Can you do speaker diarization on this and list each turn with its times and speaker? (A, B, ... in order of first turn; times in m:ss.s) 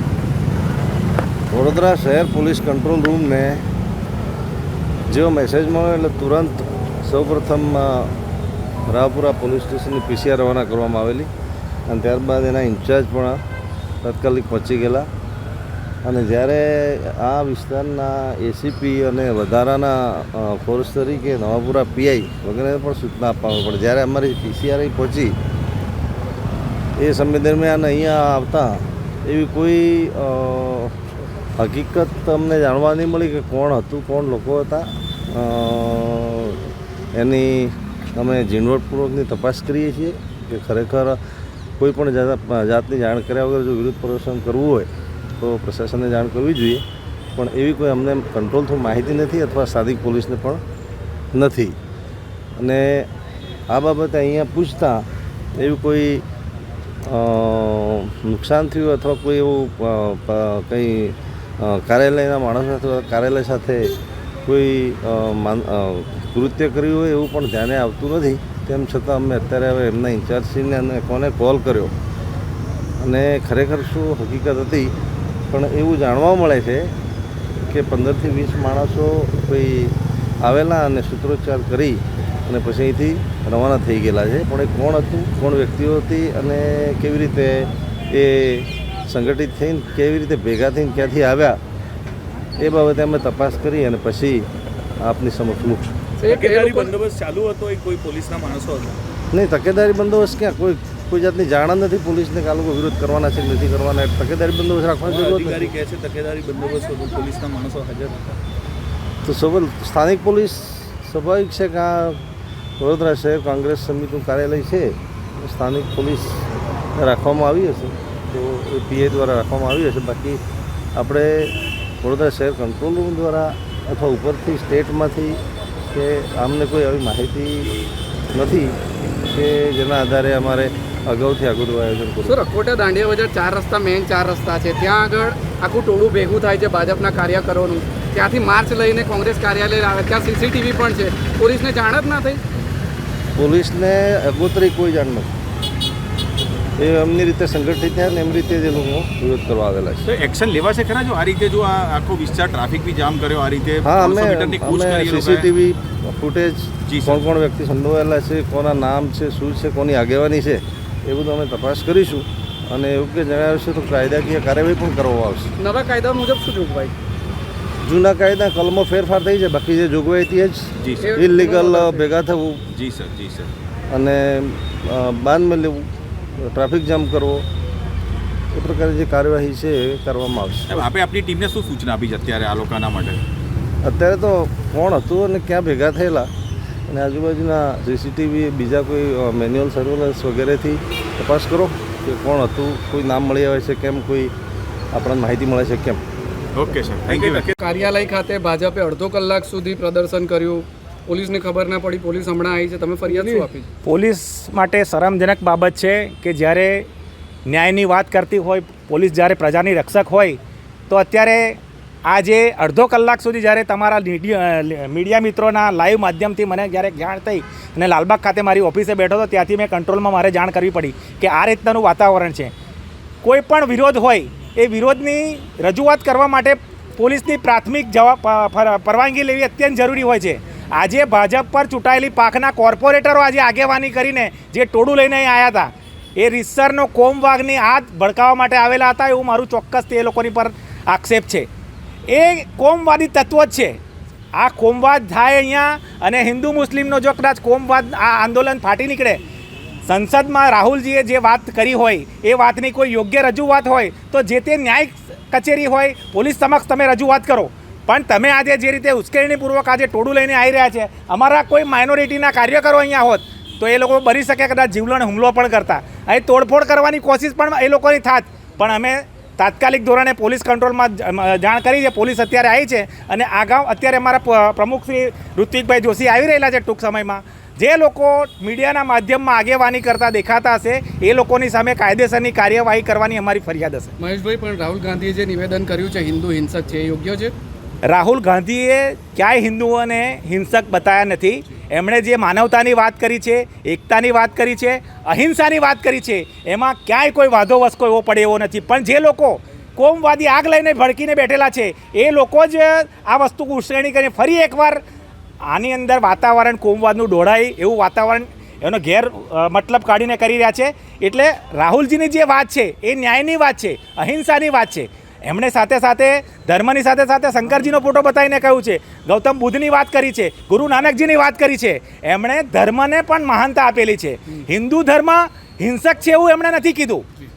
0:01.5-0:03.6 A
0:05.1-0:08.1 A
0:08.9-0:11.3 A
0:11.9-0:13.4 A
0:14.0-0:15.1 A
0:16.0-0:25.4 A
0:27.0-0:30.9 A
0:31.6-0:41.2 A
0:41.8-0:46.8 A
0:47.4-0:50.6 A
0:51.3-0:51.7 A
0:52.6-0:53.1 A
0:53.7-0:56.2 A
0:57.0-1:11.9 A
1:13.0-1:14.9 A
1:15.5-1:16.9 A
1:17.7-1:31.6 A
1:32.6-1:34.5 A
1:35.0-1:35.9 A
1:36.2-1:36.9 B
1:36.2-1:39.0 C
1:39.3-1:45.7 A
1:45.0-1:48.4 C
1:49.2-1:52.2 A
1:52.8-2:00.4 A
2:00.9-2:05.4 A
2:05.9-2:07.7 A
2:08.3-2:12.4 A
2:12.2-2:22.4 B
2:23.4-2:25.3 A
2:26.8-2:30.0 A
2:30.0-2:35.5 C
2:33.8-2:45.5 A
2:36.8-2:37.2 C
2:45.6-2:46.9 B
2:47.8-2:52.6 A
2:50.8-2:51.2 C
2:51.0-2:52.1 B
2:52.7-2:53.5 C
2:53.9-2:57.4 A
2:58.5-3:00.8 A
3:00.7-3:03.2 C
3:03.8-3:06.3 A
3:06.9-3:14.3 A
3:14.9-3:16.0 A
3:16.5-3:17.5 C
3:17.6-3:23.7 B
3:23.1-3:26.8 D
3:27.4-3:30.4 D
3:30.9-3:42.5 D
3:43.2-4:01.5 D
4:02.1-4:03.8 D
4:04.3-4:09.2 D
4:09.8-4:43.9 D
4:44.0-4:47.3 B
4:47.8-5:04.8 D
5:05.4-5:27.0 D